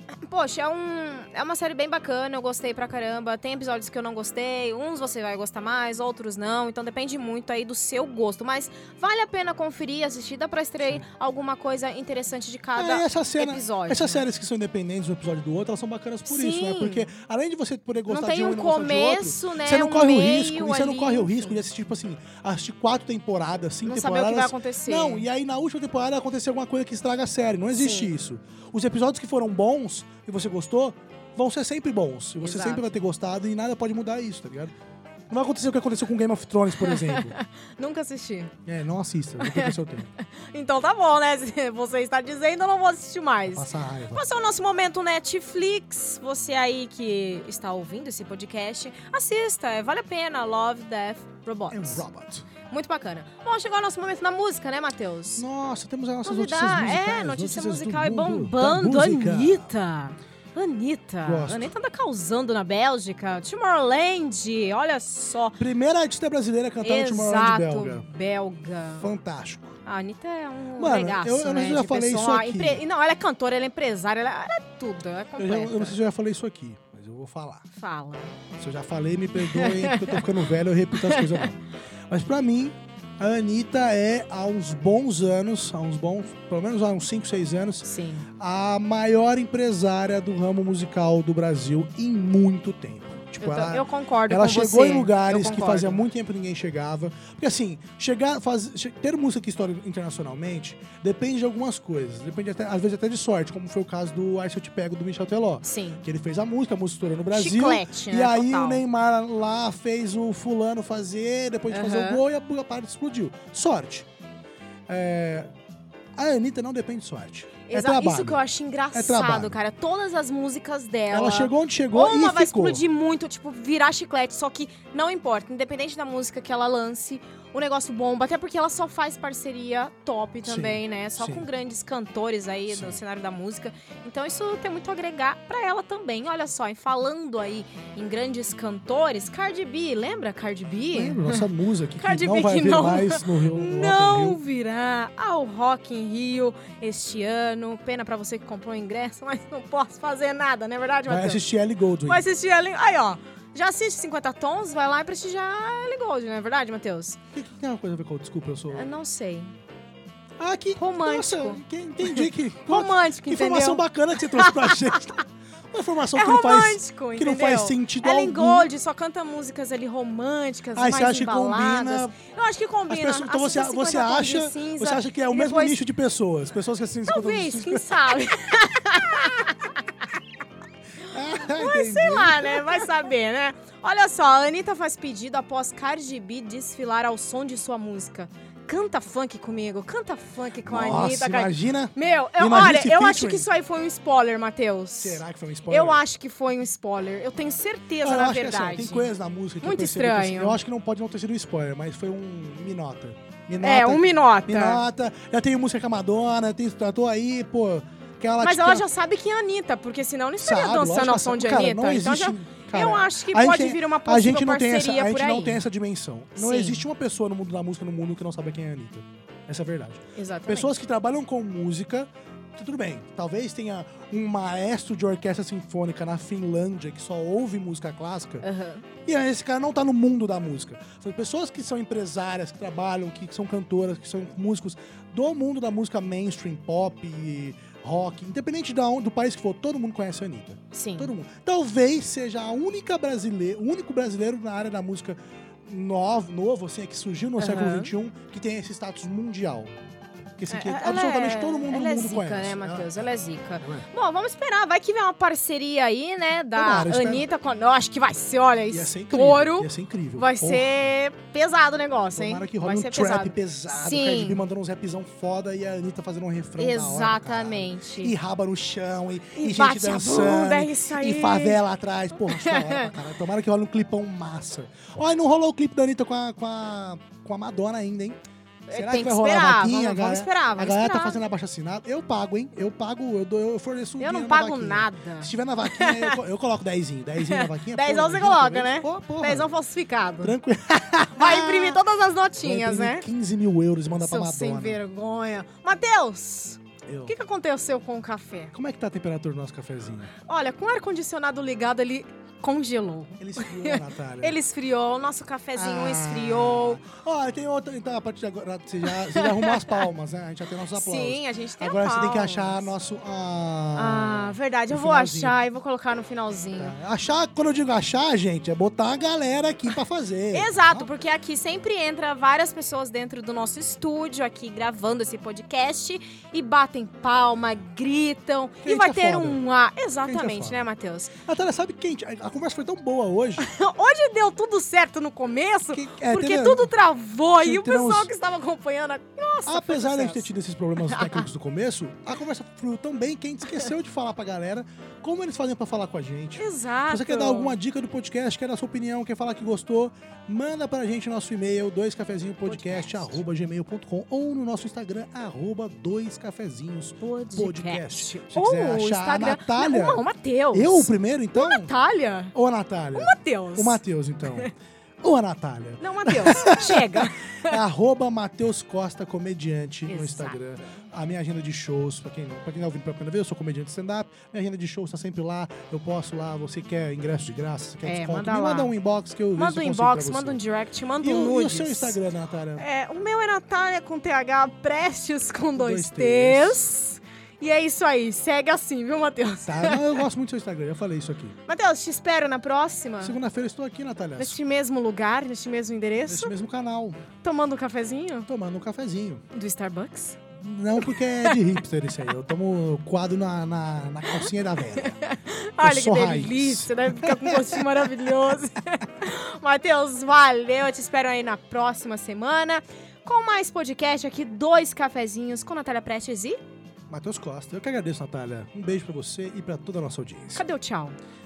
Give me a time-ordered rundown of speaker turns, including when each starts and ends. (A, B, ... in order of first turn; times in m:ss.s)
0:00.2-0:14.2 A
0:12.8-0:34.7 B
0:16.3-0:17.1 A
0:18.1-0:21.6 A
0:23.8-0:25.3 A
0:27.8-0:28.1 A
0:32.4-0:32.9 A
0:35.3-0:37.3 B
0:36.8-0:38.5 A
0:38.6-0:40.1 B
0:39.4-0:52.0 A
0:43.5-0:44.2 B
0:51.7-0:52.4 B
0:52.7-0:55.4 A
0:55.4-0:59.7 B
0:56.2-1:05.6 A
1:01.2-1:01.7 B
1:05.5-1:08.0 B
1:06.8-1:09.1 A
1:09.0-1:09.8 B
1:09.8-1:16.0 A
1:10.8-1:12.8 B
1:15.4-1:17.7 B
1:17.8-1:18.4 A
1:18.6-1:54.1 B
1:19.4-1:20.2 A
1:21.0-1:21.4 A
1:27.8-1:28.3 A
1:33.4-1:36.0 A
1:45.6-1:46.0 A
1:47.3-1:48.8 A
1:51.7-1:52.2 A
1:54.9-1:55.5 B
1:56.2-1:58.4 B
1:57.6-2:21.4 A
1:58.9-1:59.6 B
2:01.1-2:02.8 B
2:10.4-2:11.4 B
2:12.7-2:13.0 B
2:20.9-2:24.4 B
2:22.0-2:31.4 A
2:31.1-2:32.3 B
2:32.0-2:37.2 A
2:37.3-2:38.9 B
2:38.7-2:39.5 A
2:40.4-2:48.7 B
2:40.8-2:45.0 A
2:46.1-2:55.8 A
2:50.7-2:52.1 B
2:52.9-2:58.1 B
2:57.1-2:59.8 A
3:01.1-3:02.9 B
3:01.4-3:19.1 A
3:10.6-3:13.5 B
3:15.0-3:16.0 B
3:18.0-3:28.9 B
3:19.6-3:20.6 A
3:23.6-3:24.8 A
3:28.4-3:35.6 A
3:30.4-3:48.4 B
3:36.4-3:36.8 A
3:40.1-3:40.7 A
3:48.4-3:48.8 A
3:49.0-4:09.7 B
4:00.7-4:01.1 A
4:07.4-4:07.9 A
4:10.4-4:13.1 B
4:10.5-4:24.4 A
4:16.5-4:17.2 B
4:18.7-4:20.7 B
4:22.1-4:38.2 B
4:26.6-4:28.1 A
4:29.4-4:31.6 A
4:32.3-4:32.9 A
4:38.7-4:41.2 A
4:38.7-4:49.5 B
4:44.0-4:46.2 A
4:47.2-4:50.4 A
4:50.2-4:51.8 B
4:51.1-4:53.0 A
4:52.4-4:54.8 B
4:54.0-4:58.5 A
4:56.8-4:57.1 B
4:58.5-5:00.1 B
5:00.2-5:06.8 A
5:03.2-5:04.4 B
5:05.6-5:15.4 B
5:09.1-5:09.7 A
5:10.7-5:12.7 A
5:13.7-5:16.7 A
5:16.6-5:20.9 B
5:20.3-5:31.1 A
5:28.6-5:29.4 B
5:30.0-5:30.6 B
5:31.2-5:33.4 B
5:33.4-5:40.3 A
5:35.7-5:36.7 B
5:37.4-5:38.1 B
5:39.4-6:01.7 B
5:40.8-5:41.2 A
5:46.4-5:47.6 A
5:52.5-5:53.1 A
5:57.0-6:02.3 A
6:02.3-6:04.5 B
6:02.9-6:03.8 A
6:05.0-6:20.4 B
6:05.8-6:07.6 A
6:09.9-6:10.8 A
6:17.8-6:18.7 A
6:19.3-6:22.0 A
6:21.0-6:22.6 B
6:22.6-6:30.0 A
6:25.6-6:26.6 B
6:29.5-6:31.4 B
6:31.5-6:33.2 A
6:33.0-6:34.4 B
6:34.2-6:36.3 A
6:36.1-6:37.0 B
6:37.2-6:38.3 A
6:38.3-6:39.2 B
6:39.3-6:40.2 A
6:40.4-6:45.0 B
6:40.8-6:41.3 A
6:44.1-6:56.4 A
6:45.6-6:47.6 B
6:56.9-7:00.4 B
7:00.3-7:01.0 A